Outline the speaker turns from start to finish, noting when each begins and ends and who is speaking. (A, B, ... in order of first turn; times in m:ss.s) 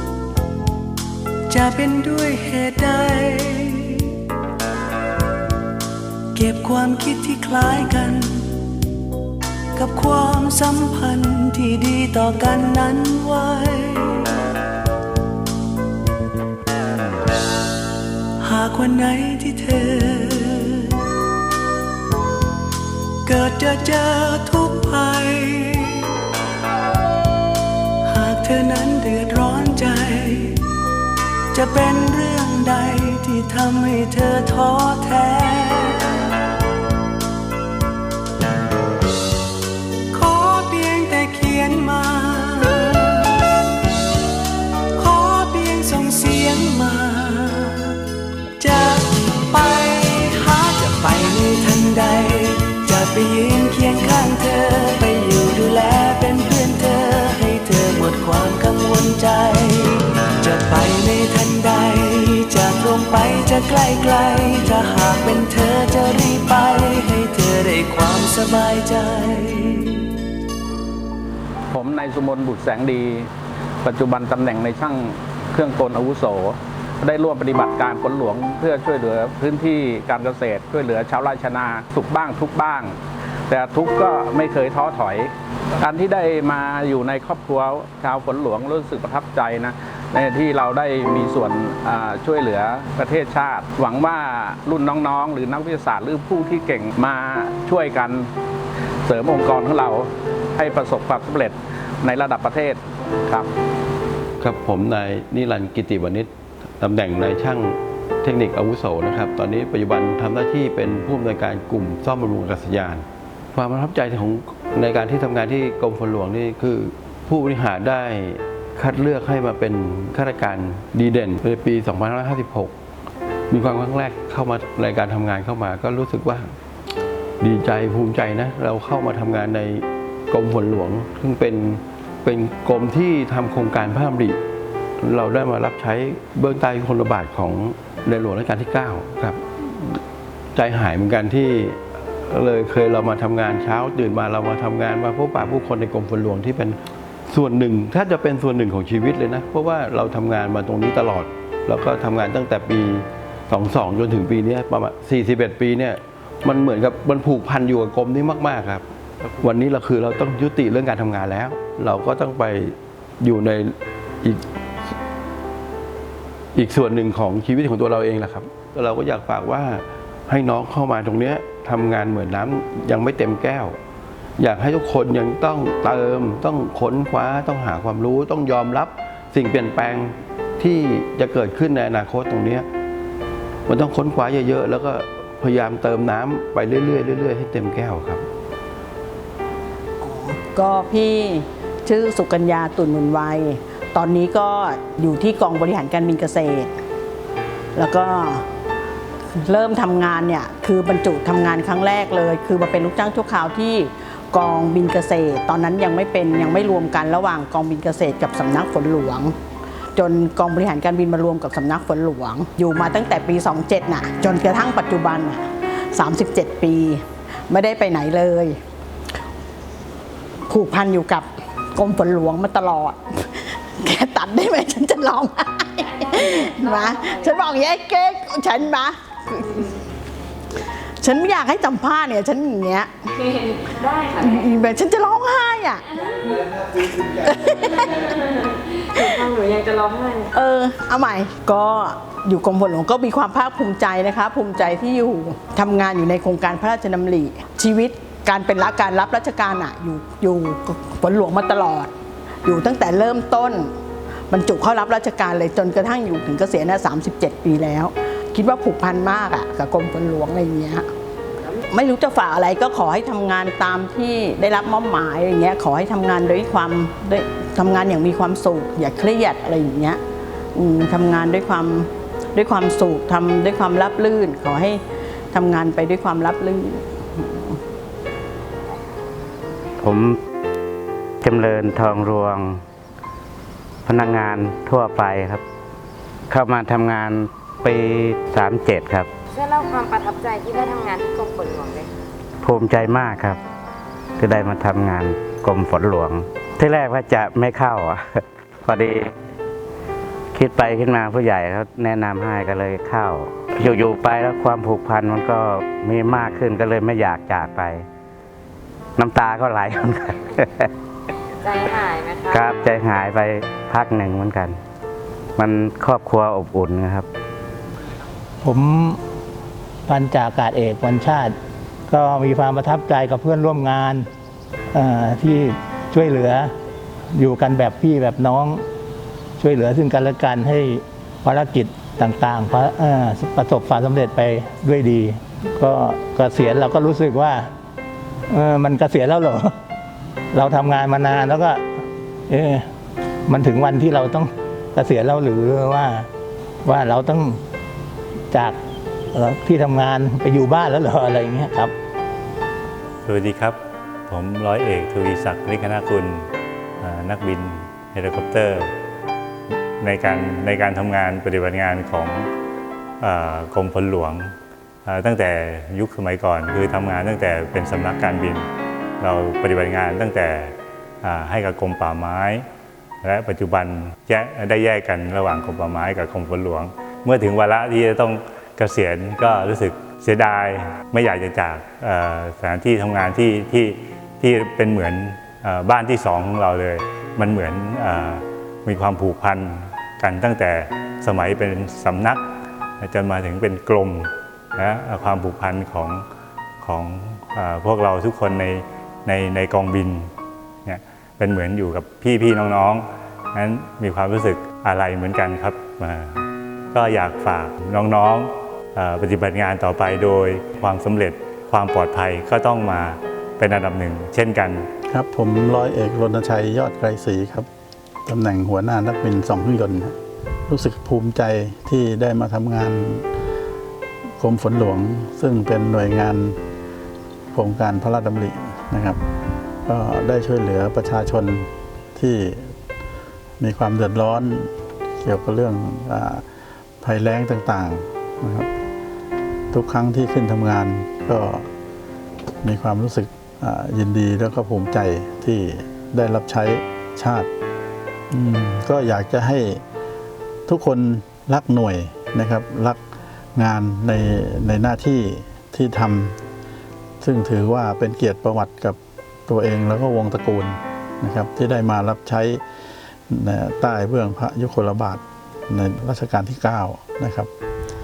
0:01.5-0:04.0 A
0:06.3-0:08.4 A
0:09.8-0:14.2 A
0:18.4-0:20.9 A
0:23.2-0:26.0 A
0:28.1-0:30.5 A
0:31.5-0:36.2 A
0:40.1-0:43.2 A
0:45.0-0:47.9 A
0:48.6-1:10.0 A
1:11.7-1:13.3 B
1:13.8-1:23.0 B
1:23.5-1:38.3 B
1:39.0-1:43.5 B
1:44.4-2:02.7 C
2:03.5-2:06.6 C
2:07.4-2:14.4 C
2:15.0-2:19.4 C
2:20.5-2:38.8 C
2:39.4-2:44.4 C
2:46.5-2:53.8 C
2:54.4-3:02.6 C
3:03.7-3:08.2 C
3:10.0-3:16.8 D
3:17.7-3:18.4 D
3:19.3-3:29.4 D
3:29.9-3:38.6 D
3:40.5-3:49.6 D
3:46.6-3:47.3 E
3:51.0-3:53.0 D
3:53.8-3:54.2 E
3:54.0-3:58.1 D
3:58.6-4:00.3 E
3:58.9-3:59.3 D
4:00.3-4:11.9 D
4:12.4-4:13.7 D
4:14.3-4:20.9 D
4:21.7-4:30.0 D
4:30.5-4:34.8 D
4:35.3-4:37.6 D
4:39.8-4:40.2 F
4:41.2-4:42.6 F
4:43.8-4:45.4 F
4:46.3-4:49.1 F
4:49.3-4:51.9 E
4:52.4-4:53.4 F
4:54.2-4:58.0 F
4:58.6-4:59.1 F
5:00.3-5:07.8 F
5:09.0-5:10.6 F
5:11.4-5:12.5 E
5:12.3-5:14.6 F
5:15.4-5:17.0 F
5:18.4-5:19.0 G
5:19.8-5:21.4 G
5:21.9-5:24.1 G
5:24.7-5:26.5 G
5:27.1-5:28.6 G
5:29.4-5:37.5 G
5:38.3-5:39.6 G
5:40.3-5:41.6 G
5:42.3-5:42.7 G
5:43.3-5:46.1 G
5:46.6-5:47.4 G
5:48.3-5:48.6 G
5:49.1-5:51.7 G
5:53.0-5:56.3 H
5:56.8-5:58.7 H
5:59.8-6:02.3 H
6:03.0-6:04.3 H
6:04.8-6:08.4 H
6:09.0-6:12.4 H
6:13.0-6:32.2 H
6:32.8-6:36.0 H
6:36.6-6:40.1 H
6:40.6-6:54.7 H
6:54.9-6:57.5 I
6:58.0-7:00.0 I
7:00.5-7:03.0 I
7:04.2-7:06.4 I
7:07.3-7:09.0 I
7:09.6-7:12.5 I
7:13.4-7:14.5 I
7:15.0-7:16.2 I
7:16.8-7:18.5 I
7:19.5-7:21.5 I
7:22.4-7:27.3 I
7:28.1-7:29.6 I
7:30.5-7:32.8 I
7:33.4-7:36.2 I
7:37.0-7:42.4 I
7:43.1-7:47.3 I